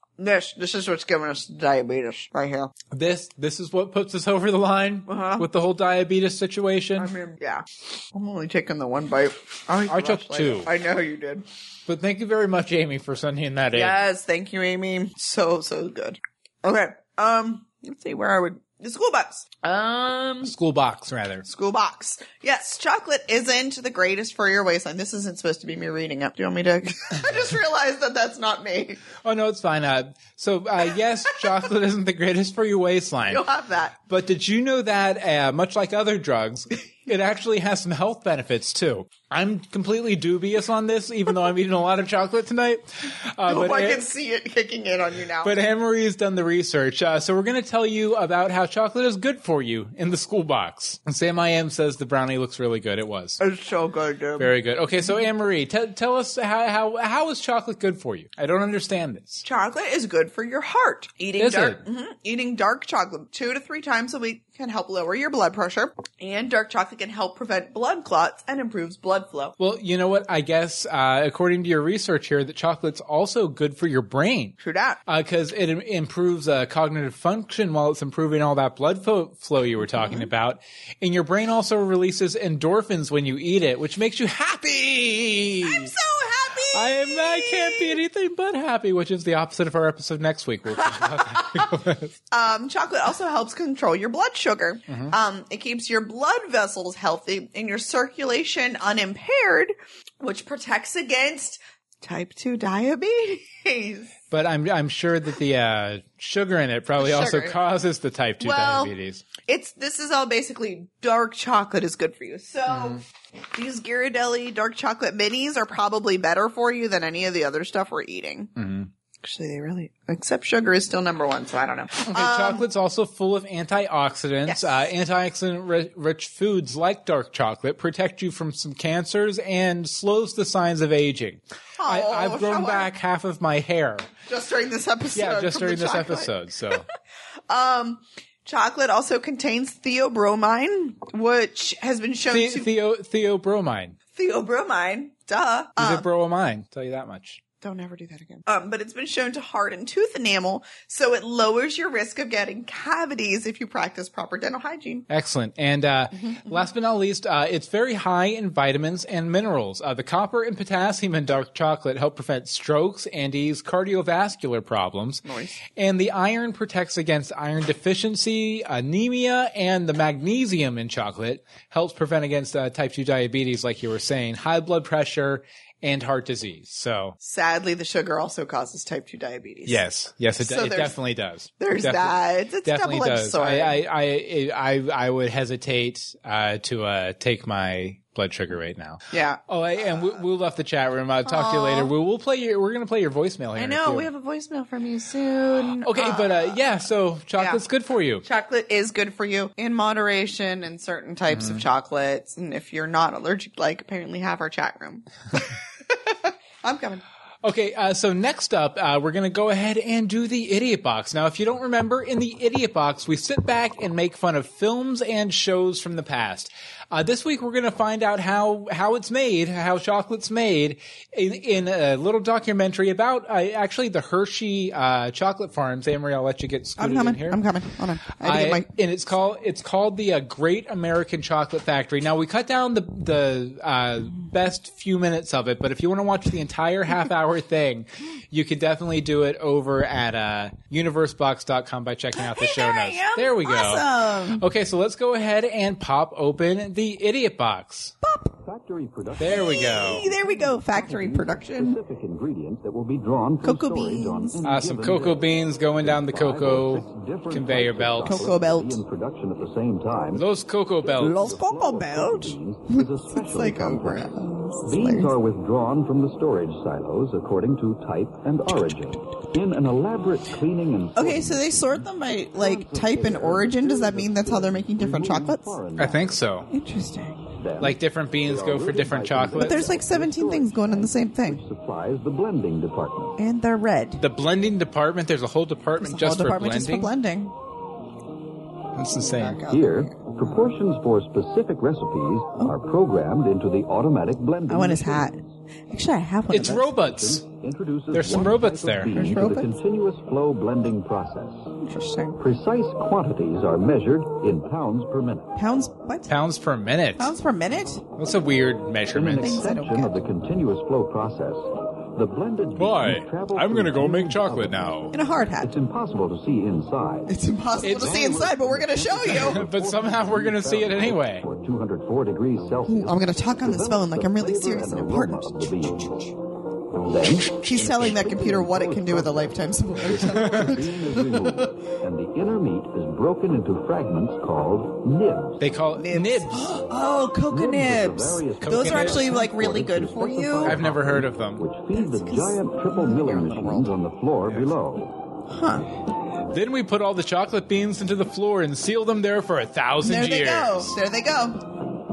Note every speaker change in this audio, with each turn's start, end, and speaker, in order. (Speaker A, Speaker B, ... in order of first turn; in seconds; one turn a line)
Speaker A: 0.2-2.7
Speaker B: 2.9-7.1
Speaker A: 5.1-5.5
Speaker A: 7.0-11.4
Speaker B: 9.9-10.7
Speaker B: 11.9-14.0
Speaker A: 13.7-20.5
Speaker B: 20.4-21.5
Speaker A: 21.4-29.0
Speaker B: 29.2-33.4
Speaker A: 33.3-34.0
Speaker B: 34.1-44.0
Speaker A: 43.5-45.5
Speaker B: 45.4-53.4
Speaker A: 53.4-54.5
Speaker B: 54.4-59.4
Speaker A: 59.4-69.5
Speaker B: 61.4-61.8
Speaker B: 69.6-74.5
Speaker A: 74.6-75.0
Speaker B: 75.1-85.9
Speaker A: 80.0-80.3
Speaker A: 85.6-88.0
Speaker B: 86.7-92.1
Speaker A: 90.7-91.7
Speaker A: 92.3-104.1
Speaker B: 94.9-95.1
Speaker B: 104.3-109.2
Speaker A: 107.0-107.6
Speaker A: 108.4-113.0
Speaker B: 112.7-113.0
Speaker A: 113.5-118.5
Speaker B: 118.5-118.9
Speaker A: 119.2-122.7
Speaker B: 122.0-134.1
Speaker A: 124.5-124.9
Speaker A: 131.8-132.9
Speaker A: 134.3-136.8
Speaker B: 135.2-136.8
Speaker A: 137.5-142.7
Speaker B: 142.3-144.0
Speaker A: 144.1-146.1
Speaker B: 145.8-147.4
Speaker A: 147.6-155.1
Speaker B: 155.1-177.2
Speaker A: 156.1-156.6
Speaker A: 165.2-165.6
Speaker A: 177.2-179.8
Speaker B: 179.7-194.1
Speaker A: 180.4-181.0
Speaker A: 181.6-183.8
Speaker A: 189.1-190.2
Speaker A: 191.2-191.9
Speaker A: 193.6-196.6
Speaker B: 195.8-198.2
Speaker A: 197.3-197.6
Speaker A: 198.2-207.0
Speaker B: 201.3-201.6
Speaker B: 207.4-227.4
Speaker A: 226.8-228.8
Speaker B: 228.2-247.9
Speaker A: 242.2-244.4
Speaker A: 248.0-248.3
Speaker C: 248.4-260.3
Speaker B: 249.2-250.1
Speaker A: 249.2-251.8
Speaker A: 253.4-254.4
Speaker B: 254.4-258.3
Speaker A: 258.0-258.8
Speaker B: 260.1-261.3
Speaker C: 260.8-264.1
Speaker A: 260.9-265.1
Speaker C: 264.6-276.2
Speaker A: 270.9-275.6
Speaker B: 275.8-276.5
Speaker A: 276.5-277.3
Speaker C: 277.4-283.2
Speaker B: 277.6-279.6
Speaker A: 279.3-281.4
Speaker A: 283.2-284.0
Speaker B: 284.0-286.9
Speaker A: 285.8-287.4
Speaker B: 288.7-289.4
Speaker A: 289.0-290.5
Speaker C: 289.4-295.1
Speaker A: 294.5-296.7
Speaker B: 296.3-297.3
Speaker C: 296.4-301.5
Speaker B: 297.9-298.9
Speaker A: 298.9-299.5
Speaker A: 301.6-302.2
Speaker C: 302.2-305.3
Speaker A: 305.3-306.1
Speaker B: 306.1-307.1
Speaker A: 307.0-307.8
Speaker B: 308.0-309.4
Speaker C: 308.9-325.9
Speaker A: 309.2-310.0
Speaker B: 312.6-314.9
Speaker A: 314.9-315.5
Speaker A: 317.1-319.4
Speaker B: 317.6-318.0
Speaker B: 319.1-321.2
Speaker A: 322.6-325.9
Speaker C: 326.8-335.4
Speaker A: 326.9-331.6
Speaker B: 335.4-336.5
Speaker A: 335.7-340.6
Speaker C: 337.2-344.9
Speaker B: 338.4-339.1
Speaker B: 340.4-341.4
Speaker A: 341.7-343.7
Speaker B: 344.2-344.5
Speaker A: 345.3-345.6
Speaker B: 346.3-350.8
Speaker A: 349.8-351.6